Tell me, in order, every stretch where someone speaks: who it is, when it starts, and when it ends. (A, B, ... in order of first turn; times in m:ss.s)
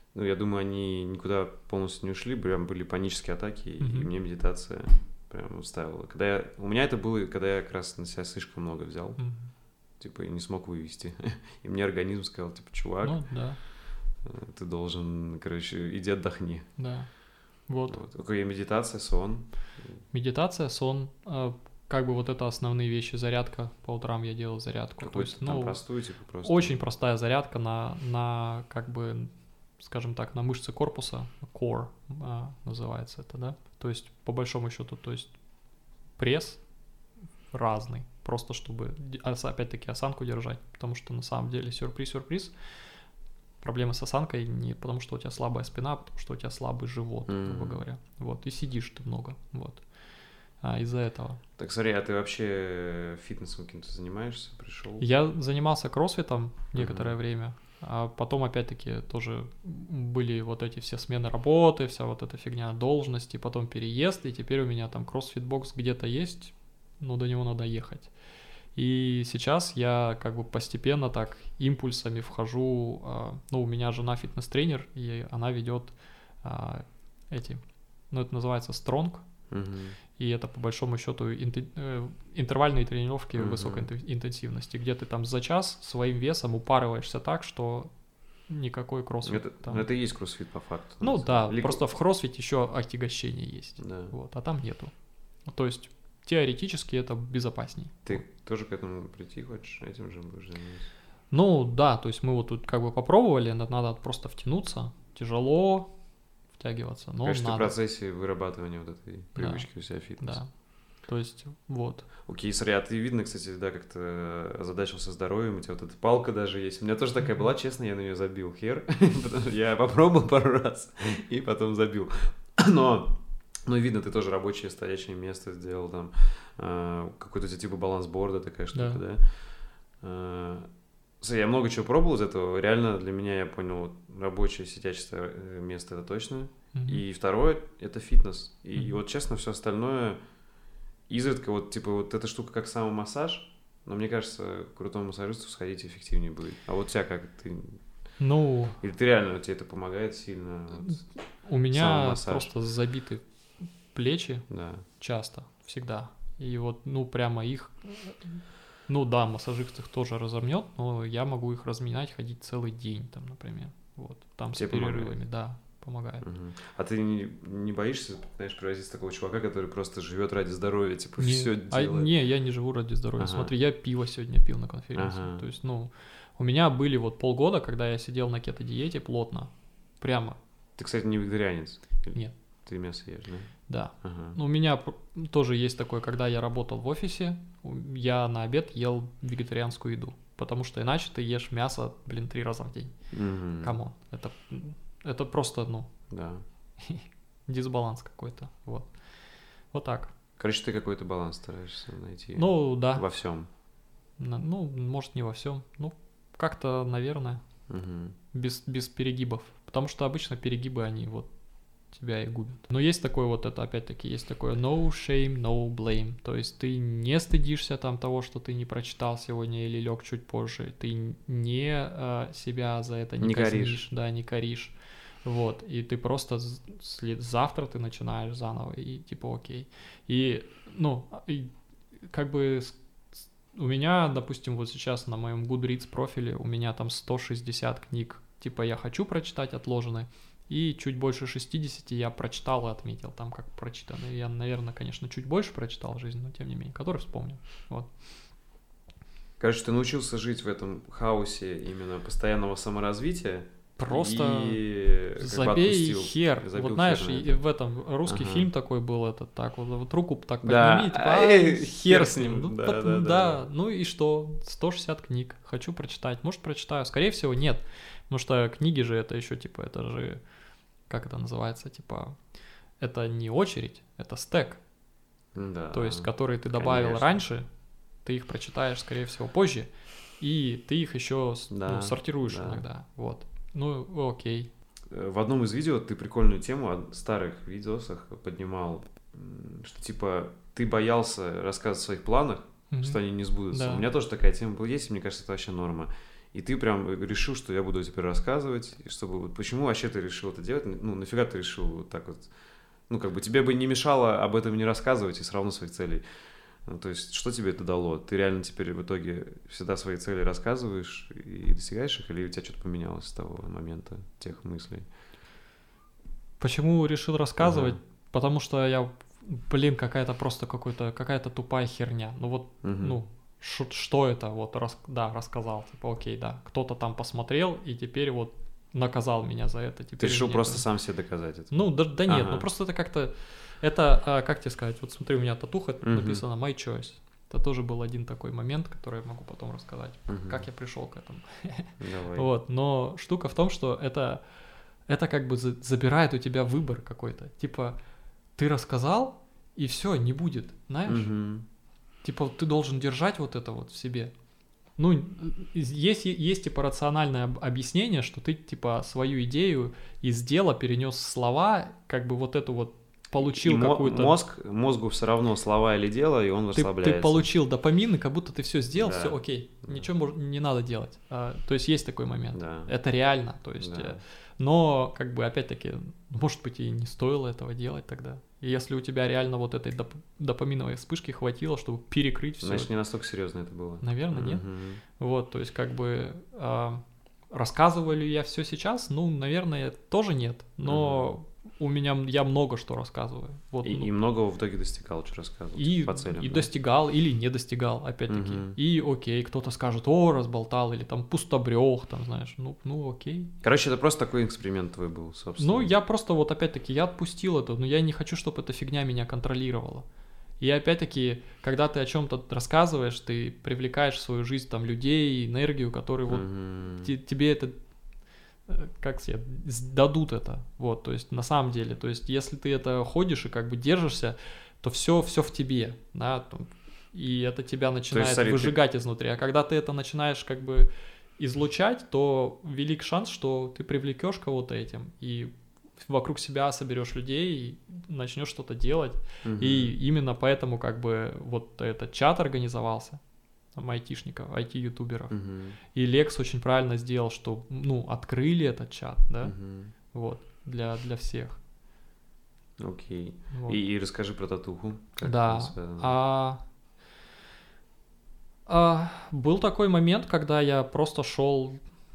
0:00.1-0:09.2 A
0:03.8-0:04.1 B
0:09.2-0:09.5 B
0:10.0-0:16.7 A
0:13.0-0:13.6 B
0:16.8-0:18.0 B
0:17.9-0:20.0 A
0:20.1-0:25.8 B
0:25.0-0:26.8 A
0:26.4-0:35.4 B
0:36.2-0:36.6 B
0:37.5-0:42.6 B
0:43.6-0:49.8 B
0:47.3-0:47.8 A
0:50.6-0:51.4 B
0:51.6-0:55.0 A
0:55.0-1:08.1 B
0:56.8-0:57.2 A
1:08.8-1:19.2 B
1:19.5-1:20.0 A
1:20.2-1:27.9 B
1:23.4-1:23.9 A
1:28.5-1:29.9 B
1:29.2-1:31.8 A
1:31.0-1:34.9 B
1:33.8-1:34.1 A
1:35.5-1:38.2 B
1:38.0-1:40.9 A
1:41.3-1:45.9 B
1:46.5-1:47.7 B
1:47.2-1:50.4 A
1:49.4-1:50.5 B
1:51.0-1:52.1 B
1:52.3-2:10.7 A
2:08.7-2:09.0 B
2:11.2-2:20.2 A
2:16.7-2:17.0 B
2:21.1-2:27.8 A
2:28.2-2:28.8 B
2:28.8-2:31.1 A
2:30.8-2:33.2 B
2:31.7-2:32.5 A
2:33.9-2:46.3 B
2:34.5-2:34.8 A
2:44.5-2:45.2 A
2:46.2-2:52.1 A
2:51.2-3:00.4 B
2:53.2-2:53.5 A
2:55.0-2:55.4 A
3:00.8-3:04.4 A
3:03.7-3:13.0 B
3:13.1-3:13.8 A
3:13.6-3:15.9 B
3:16.1-3:16.4 A
3:16.8-3:18.9 B
3:19.7-3:20.1 B
3:20.4-3:23.5 A
3:22.4-3:23.0 B
3:24.2-3:27.4 B
3:27.7-3:28.2 A
3:28.3-3:31.3 B
3:31.9-3:52.8 B
3:43.2-3:43.8 A
3:53.5-4:07.9 B
4:09.4-4:17.4 A
4:13.8-4:14.6 B
4:15.2-4:30.2 B
4:18.0-4:18.5 A
4:20.4-4:23.4 A
4:30.9-4:32.2 B
4:32.8-4:34.6 B
4:35.4-4:37.3 A
4:35.7-4:37.5 B
4:38.0-4:44.5 B
4:41.5-4:42.6 A
4:44.9-5:02.3 A
4:52.7-4:53.9 B
5:02.9-5:06.0 A
5:06.6-5:14.9 A
5:16.4-5:30.7 B
5:17.4-5:17.8 A
5:22.6-5:23.0 A
5:30.0-5:32.5 A
5:31.5-5:44.2 B
5:35.8-5:36.2 A
5:40.1-5:40.4 A
5:41.8-5:42.3 A
5:44.9-5:47.8 B
5:48.4-5:51.1 B
5:50.9-5:51.5 A
5:52.0-5:54.1 B
5:54.8-6:04.2 B
6:03.2-6:07.3 A
6:06.5-6:22.7 B
6:08.8-6:09.9 A
6:12.3-6:12.7 A
6:13.6-6:14.0 A
6:22.4-6:24.8 A
6:23.8-6:33.9 B
6:30.6-6:31.1 A
6:33.6-6:36.5 A
6:35.6-6:43.4 B
6:38.1-6:38.6 A
6:43.4-6:45.7 A
6:45.4-6:49.9 B
6:50.4-6:56.3 B
6:56.1-6:56.9 A
6:56.8-6:57.6 B
6:58.5-7:23.0 B
7:07.9-7:08.6 A
7:19.2-7:19.8 A
7:23.6-7:29.4 B
7:25.1-7:25.6 A
7:29.2-7:29.7 A
7:29.9-7:31.4 B
7:32.6-7:35.9 A
7:33.3-7:33.6 B
7:35.0-7:36.4 B
7:38.5-7:41.6 B